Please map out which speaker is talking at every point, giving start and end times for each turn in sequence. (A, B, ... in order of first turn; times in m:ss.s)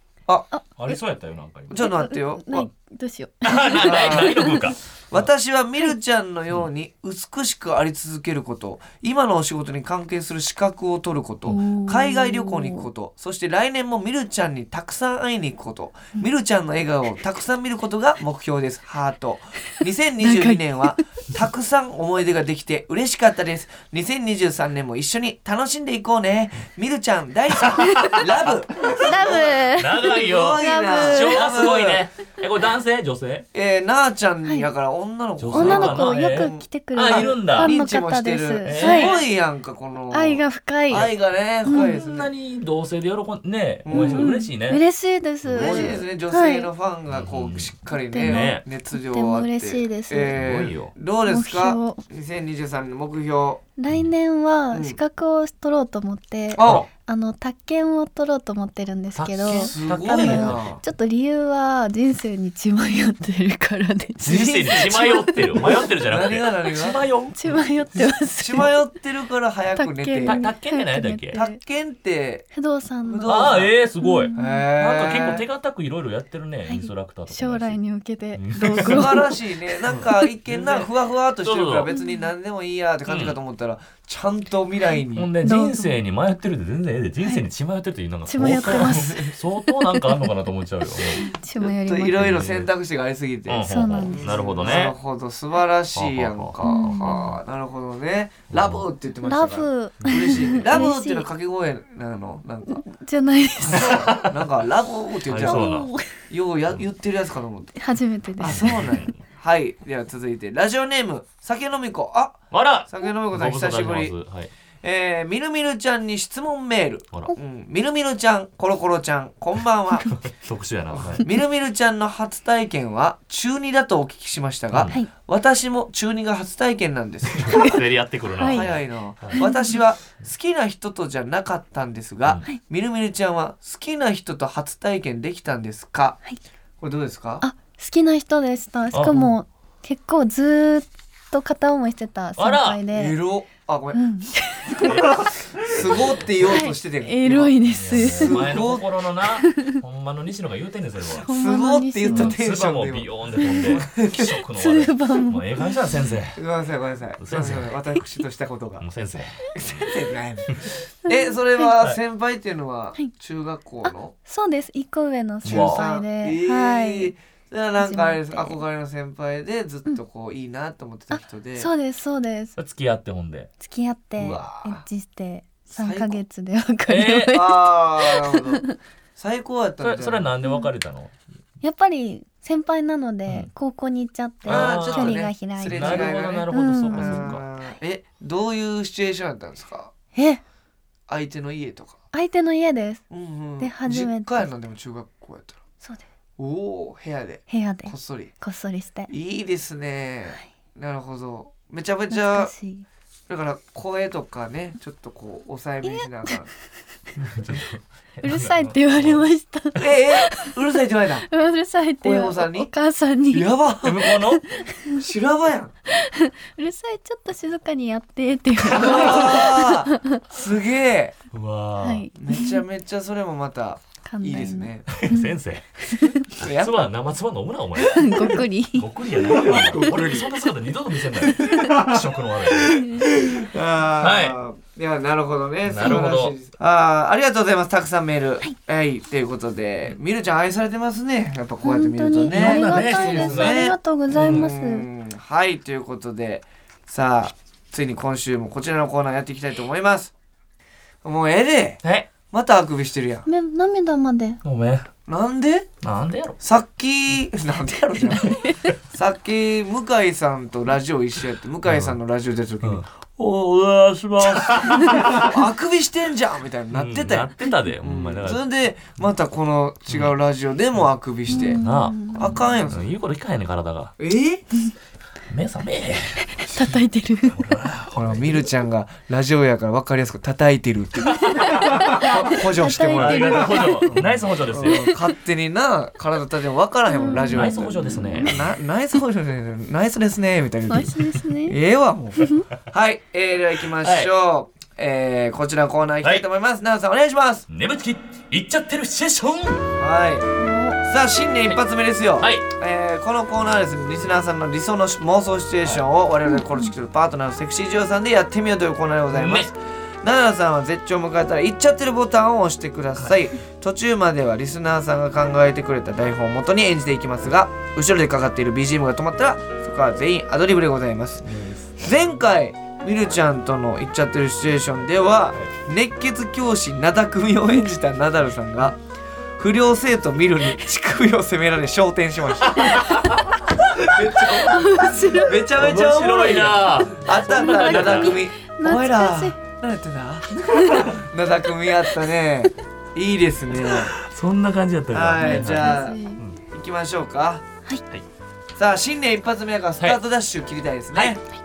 0:00.8-0:01.8 A
0:01.7-0:02.7 B
0:01.8-0:04.7 C
0:03.4-0:05.3 A
0:03.8-0:04.5 B
0:05.1-0:29.6 B
0:11.5-0:12.9 C
0:20.2-0:21.0 C
0:27.6-0:33.5 A
0:29.0-0:31.7 C
0:30.2-0:32.0 B
0:33.5-0:42.3 B
0:35.4-0:37.7 A
0:35.5-0:39.2 C
0:38.6-0:39.2 A
0:40.1-0:41.1 C
0:41.6-0:42.0 C
0:41.7-0:44.8 A
0:43.8-0:44.3 B
0:43.9-0:46.7 C
0:45.5-0:46.0 A
0:45.5-0:53.6 B
0:47.1-0:48.6 A
0:48.1-0:50.4 C
0:50.3-0:50.9 A
0:51.3-0:52.0 C
0:53.8-1:05.7 C
0:54.7-0:55.0 B
0:56.5-0:56.9 B
0:56.6-0:56.9 A
0:59.2-1:00.7 A
0:59.5-1:00.8 B
1:04.2-1:07.7 A
1:04.2-1:07.0 B
1:07.4-1:08.7 C
1:08.4-1:10.4 B
1:09.8-1:11.6 C
1:10.2-1:11.4 A
1:11.3-1:12.5 B
1:12.5-1:13.3 C
1:13.0-1:13.7 B
1:13.3-1:17.8 A
1:14.0-1:14.7 C
1:14.4-1:15.4 B
1:16.7-1:19.8 C
1:18.4-1:19.2 A
1:18.7-1:25.3 B
1:19.9-1:20.9 A
1:21.4-1:21.9 A
1:21.9-1:22.2 C
1:23.1-1:23.4 A
1:25.2-1:31.3 A
1:25.4-1:25.9 C
1:28.3-1:30.2 C
1:28.5-1:29.2 B
1:31.2-1:32.2 C
1:31.6-1:42.8 B
1:32.2-1:32.7 A
1:33.5-1:35.0 A
1:33.7-1:34.5 C
1:36.0-1:37.1 A
1:36.6-1:37.4 C
1:38.5-1:38.8 A
1:39.2-1:41.3 C
1:40.0-1:40.6 A
1:42.7-1:44.0 C
1:43.6-1:45.7 B
1:43.8-1:44.4 A
1:45.3-1:45.9 A
1:45.4-1:46.1 C
1:46.3-1:47.8 B
1:47.8-1:48.7 C
1:48.4-1:54.1 B
1:48.4-1:49.2 A
1:52.5-1:54.5 A
1:54.8-2:00.1 B
2:00.2-2:01.3 A
2:00.9-2:07.7 B
2:07.4-2:09.4 A
2:07.5-2:07.8 C
2:08.4-2:08.7 C
2:08.5-2:16.2 B
2:09.4-2:09.8 C
2:16.8-2:17.4 B
2:17.4-2:23.2 C
2:18.9-2:19.3 A
2:22.4-2:22.8 A
2:22.9-2:24.0 B
2:23.9-2:25.3 C
2:24.8-2:25.3 A
2:25.6-2:28.9 B
2:26.4-2:28.5 C
2:27.7-2:31.3 A
2:29.4-2:29.8 C
2:31.2-2:32.4 C
2:31.3-2:33.1 B
2:32.1-2:36.4 A
2:33.4-2:33.8 C
2:33.6-2:34.4 B
2:34.5-2:35.8 C
2:36.4-2:38.9 B
2:37.2-2:37.7 A
2:38.8-2:39.4 A
2:39.6-2:44.1 B
2:43.8-2:47.1 C
2:45.4-2:45.8 A
2:45.4-2:51.7 B
2:47.8-2:48.6 C
2:51.1-2:52.6 C
2:52.6-2:53.5 A
2:53.6-2:58.8 C
2:54.2-2:54.8 B
2:55.7-2:56.2 B
2:56.9-2:57.4 A
2:57.3-2:58.6 B
2:59.2-3:00.3 B
2:59.8-3:01.1 A
3:01.6-3:07.4 C
3:04.4-3:09.9 B
3:04.5-3:07.4 A
3:10.2-3:10.4 C
3:11.1-3:12.0 B
3:12.1-3:13.0 C
3:13.1-3:15.6 B
3:13.6-3:14.5 C
3:16.4-3:18.3 B
3:17.5-3:19.1 C
3:19.1-3:22.5 B
3:22.1-3:22.9 C
3:23.3-3:26.5 B
3:25.8-3:26.4 C
3:27.2-3:29.2 A
3:28.2-3:30.6 C
3:29.8-3:31.3 B
3:31.3-3:33.5 C
3:32.0-3:32.7 B
3:33.3-3:34.1 B
3:33.8-3:34.4 A
3:34.0-3:35.0 C
3:34.9-3:35.7 B
3:35.9-3:40.2 C
3:38.7-3:39.4 A
3:38.7-3:41.2 B
3:41.3-3:42.1 A
3:41.8-3:42.6 C
3:42.2-3:45.0 B
3:44.0-3:45.4 C
3:45.0-3:45.7 A
3:45.9-3:46.3 C
3:46.3-3:53.3 A
3:46.4-3:46.9 B
3:47.8-3:48.9 C
3:49.3-3:50.3 B
3:51.3-3:51.8 C
3:51.5-3:52.0 B
3:52.7-3:53.1 C
3:52.8-4:10.1 B
3:54.0-3:54.4 A
3:55.7-3:56.4 A
4:01.6-4:04.9 C
4:02.3-4:04.5 A
4:11.0-4:13.3 B
4:11.8-4:12.1 A
4:13.3-4:14.4 C
4:14.4-4:14.9 A
4:15.1-4:15.7 B
4:15.8-4:16.4 A
4:16.4-4:22.8 B
4:18.2-4:18.7 C
4:21.6-4:22.0 A
4:22.6-4:25.4 A
4:24.2-4:31.6 B
4:26.7-4:28.4 A
4:29.9-4:30.1 A
4:31.3-4:32.4 C
4:31.3-4:33.9 A
4:32.1-4:32.9 B
4:34.0-4:34.4 B
4:35.3-4:36.2 A
4:36.3-4:37.4 C
4:37.3-4:38.4 A
4:37.9-4:57.4 B
4:41.1-4:42.1 A
4:41.3-4:44.0 C
4:42.9-4:44.9 A
4:44.6-4:45.0 C
4:46.9-4:48.3 C
4:47.3-4:48.4 A
4:50.7-4:51.6 C
4:52.2-4:52.5 C
4:53.8-4:54.1 A
4:57.5-4:59.7 A
4:59.8-5:00.3 B
5:00.4-5:00.8 C
5:00.8-5:28.8 B
5:02.2-5:02.5 A
5:09.1-5:09.5 A
5:21.3-5:21.8 A
5:29.4-5:33.0 B
5:32.4-5:34.6 A
5:33.6-5:43.9 B
5:34.3-5:35.4 C
5:35.4-5:38.2 A
5:37.2-5:39.4 C
5:40.5-5:40.8 C
5:43.7-5:46.4 A
5:44.9-5:46.0 B
5:45.2-5:46.2 C
5:46.5-5:47.4 B
5:48.6-5:51.2 B